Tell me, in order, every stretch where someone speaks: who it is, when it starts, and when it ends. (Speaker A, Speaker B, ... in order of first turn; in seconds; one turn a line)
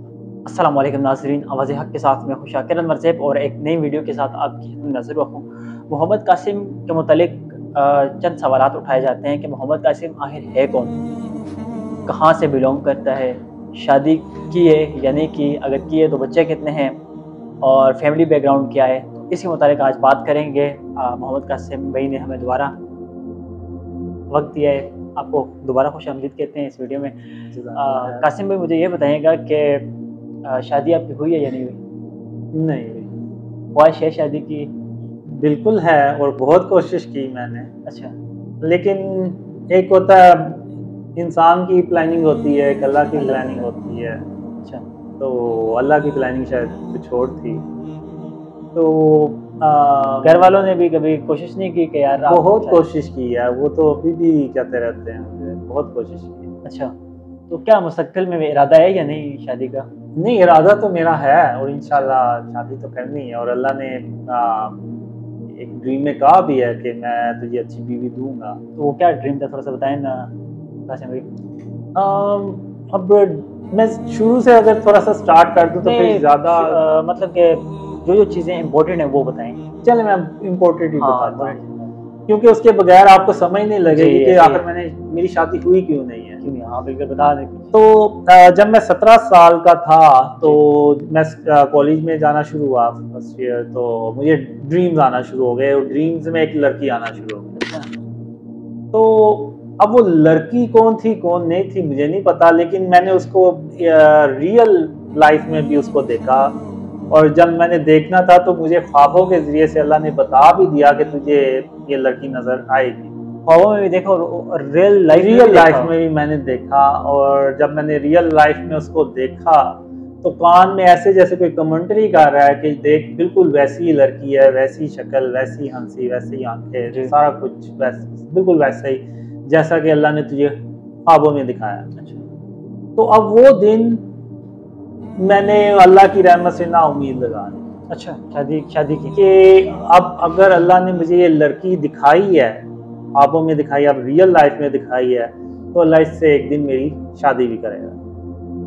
Speaker A: 0.5-11.0
Speaker A: 12.1-17.0
Speaker A: 17.6-22.8
Speaker A: 24.3-27.2
Speaker B: 27.5-28.3
Speaker A: 27.7-29.9
Speaker A: 30.4-31.8
Speaker B: 32.5-33.1
Speaker A: 33.7-34.7
Speaker B: 35.3-37.7
Speaker A: 37.9-38.1
Speaker B: 38.6-44.2
Speaker A: 43.2-43.7
Speaker B: 45.2-47.6
Speaker B: 48.8-50.5
Speaker A: 50.2-52.9
Speaker B: 52.3-56.5
Speaker A: 56.6-56.9
Speaker A: 57.5-59.9
Speaker B: 60.2-68.6
Speaker A: 68.8-70.3
Speaker A: 70.9-71.3
Speaker B: 72.0-76.8
Speaker A: 75.8-79.6
Speaker B: 79.8-81.6
Speaker A: 81.0-81.9
Speaker B: 82.3-86.4
Speaker A: 83.9-84.6
Speaker A: 86.4-87.7
Speaker B: 87.7-97.7
Speaker A: 97.6-97.9
Speaker B: 98.9-113.2
Speaker A: 113.5-115.9
Speaker B: 115.1-131.9
Speaker A: 132.0-132.2
Speaker B: 133.0-134.1
Speaker B: 135.2-137.7
Speaker A: 137.9-139.2
Speaker B: 139.1-148.0